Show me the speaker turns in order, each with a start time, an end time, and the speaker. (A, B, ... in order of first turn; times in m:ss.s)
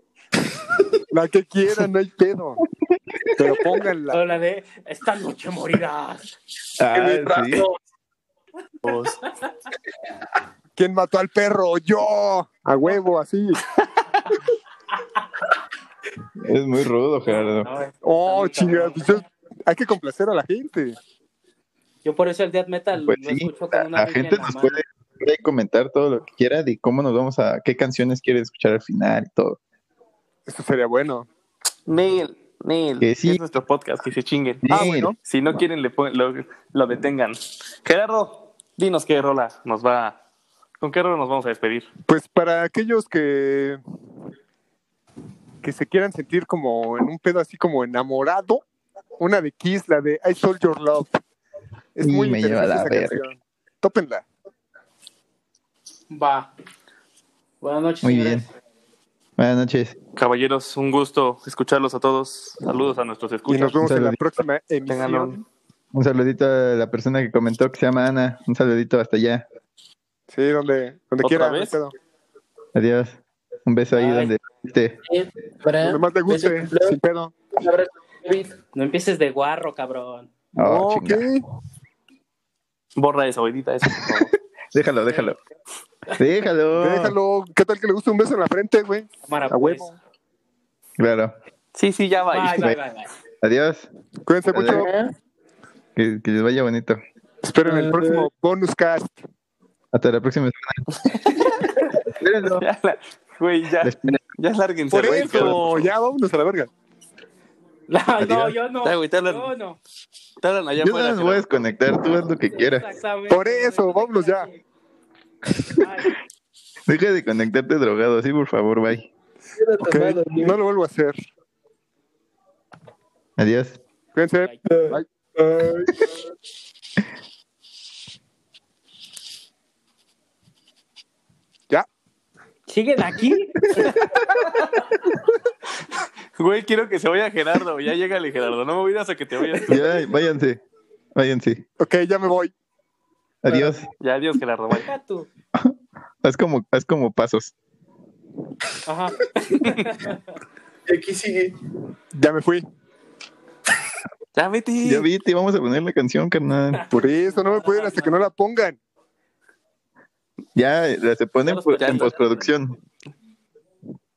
0:01.1-0:02.6 A
0:03.0-0:03.6 B
0:03.4-0:04.2 A
0:04.1-0:06.3 C
0:06.8-0:07.7 B
0:06.9-0:07.8 D
0:08.8-0:09.2 E
0:10.8-0:13.6 A
0:16.4-0:17.7 B
0:17.3-0:19.2 C
0:18.0-0:21.0 A
0:22.0-0:24.8 C
0:23.0-0:29.6 B
0:30.5-0:31.3 A
0:31.9-0:40.2 E
0:33.0-0:33.4 B
0:34.6-0:35.1 B
0:34.7-0:35.2 A
0:40.8-0:41.9 E
0:42.1-0:43.8 A
0:45.6-0:48.6 A
0:49.2-0:51.2 A
0:51.9-0:54.2 A
0:52.0-0:53.2 B
0:56.1-0:56.5 C
0:57.6-0:58.5 C
0:58.0-0:58.5 B
0:59.4-1:00.0 B
1:00.2-1:03.8 E
1:03.5-1:05.4 A
1:03.8-1:04.2 B
1:04.9-1:05.4 E
1:05.9-1:09.4 B
1:10.3-1:11.9 A
1:11.2-1:11.8 E
1:12.7-1:15.0 B
1:13.9-1:14.3 C
1:15.0-1:17.0 D
1:15.8-1:17.3 A
1:17.5-1:18.6 D
1:18.7-1:20.3 C
1:20.6-1:21.3 B
1:20.6-1:21.4 A
1:23.0-1:24.3 E
1:24.7-1:25.4 B
1:25.0-1:25.3 C
1:26.2-1:27.2 B
1:26.8-1:30.0 A
1:29.2-1:29.9 C
1:31.0-1:31.3 B
1:31.7-1:32.8 E
1:32.3-1:33.1 C
1:33.4-1:33.9 B
1:34.2-1:34.9 A
1:34.5-1:34.8 B
1:34.7-1:35.1 D
1:36.0-1:37.0 B
1:37.4-1:39.2 A
1:37.6-1:38.1 D
1:39.9-1:40.8 B
1:41.0-1:41.5 E
1:42.1-1:42.6 B
1:42.6-1:45.9 E
1:43.8-1:44.2 B
1:44.9-1:46.7 A
1:45.0-1:45.6 B
1:47.9-1:49.8 C
1:48.2-1:48.5 B
1:48.8-1:49.5 E
1:50.4-1:51.7 E
1:50.8-1:52.9 B
1:52.5-1:54.6 C
1:53.3-1:54.5 A
1:55.8-1:56.1 C
1:56.9-1:59.1 B
1:59.6-2:00.6 D
1:59.8-2:01.2 A
2:03.4-2:03.8 B
2:04.1-2:05.0 A
2:04.6-2:06.2 D
2:12.7-2:14.0 C
2:16.4-2:19.9 E
2:19.7-2:20.6 B
2:21.1-2:21.6 B
2:21.8-2:22.5 A
2:23.4-2:23.9 B
2:23.5-2:23.8 D
2:24.0-2:24.9 E
2:24.7-2:25.3 C
2:25.5-2:27.5 B
2:28.8-2:30.3 C
2:30.8-2:31.6 D
2:32.1-2:32.6 A
2:34.3-2:35.1 E
2:34.8-2:36.9 B
2:36.7-2:38.3 C
2:36.9-2:38.8 A
2:40.5-2:42.8 B
2:41.4-2:42.4 C
2:41.8-2:42.2 E